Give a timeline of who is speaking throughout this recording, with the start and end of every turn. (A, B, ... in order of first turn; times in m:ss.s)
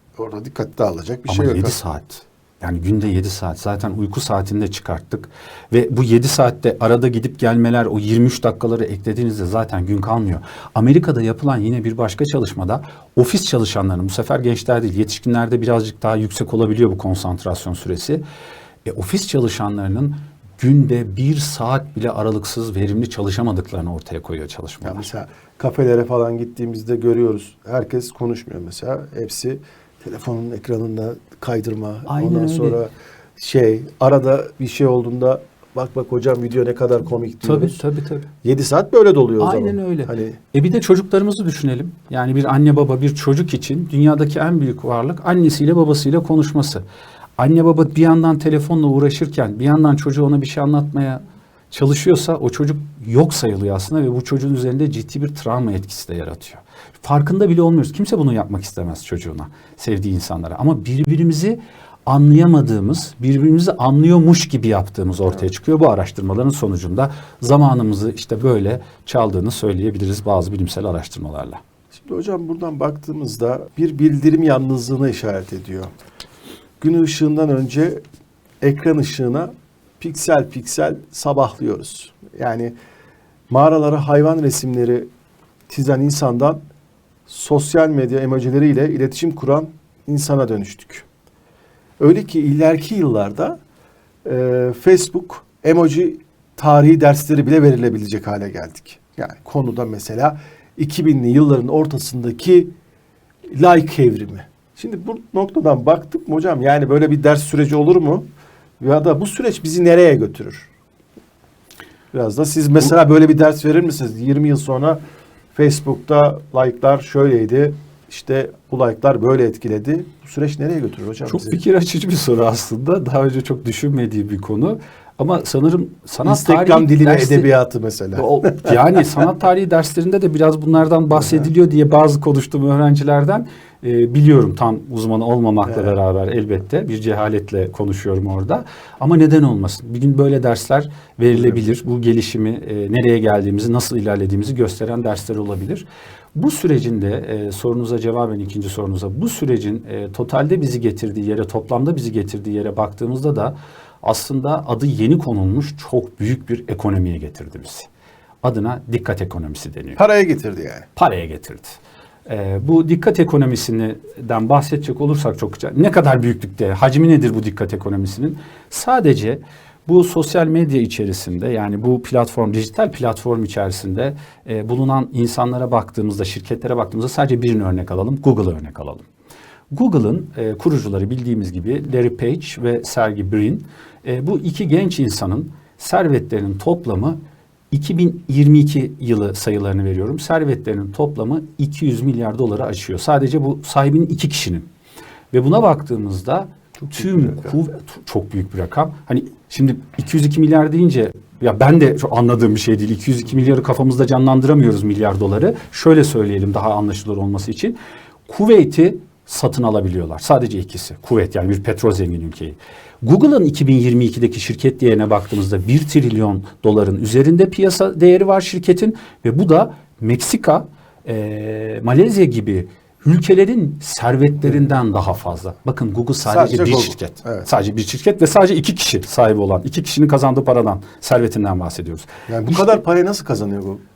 0:00.2-0:01.8 A
0:01.3-0:18.2 B
0:18.8-0:25.0 B
0:24.8-0:37.8 A
0:32.1-0:32.8 B
0:37.4-0:38.3 B
0:38.4-0:40.4 A
0:39.4-0:46.8 B
0:47.4-1:11.6 B
1:11.9-1:15.9 A
1:16.8-1:18.0 A
1:18.6-1:22.8 A
1:23.5-1:25.1 A
1:25.7-1:26.6 A
1:27.3-1:31.1 A
1:32.0-1:33.6 A
1:34.2-1:42.7 A
1:43.5-1:48.3 A
1:48.8-1:50.7 A
1:52.1-1:55.0 A
1:55.5-2:01.6 A
2:01.2-2:07.5 B
2:06.2-2:09.0 A
2:08.2-2:37.9 B
2:11.2-2:11.5 A
2:15.7-2:15.9 A
2:38.4-2:40.0 B
2:40.0-2:40.9 A
2:41.0-2:59.1 B
2:59.7-3:07.2 B
3:07.7-3:14.7 B
3:15.3-3:27.8 B
3:16.8-3:17.5 A
3:28.3-3:52.8 B
3:46.2-3:47.5 A
3:52.3-3:53.8 A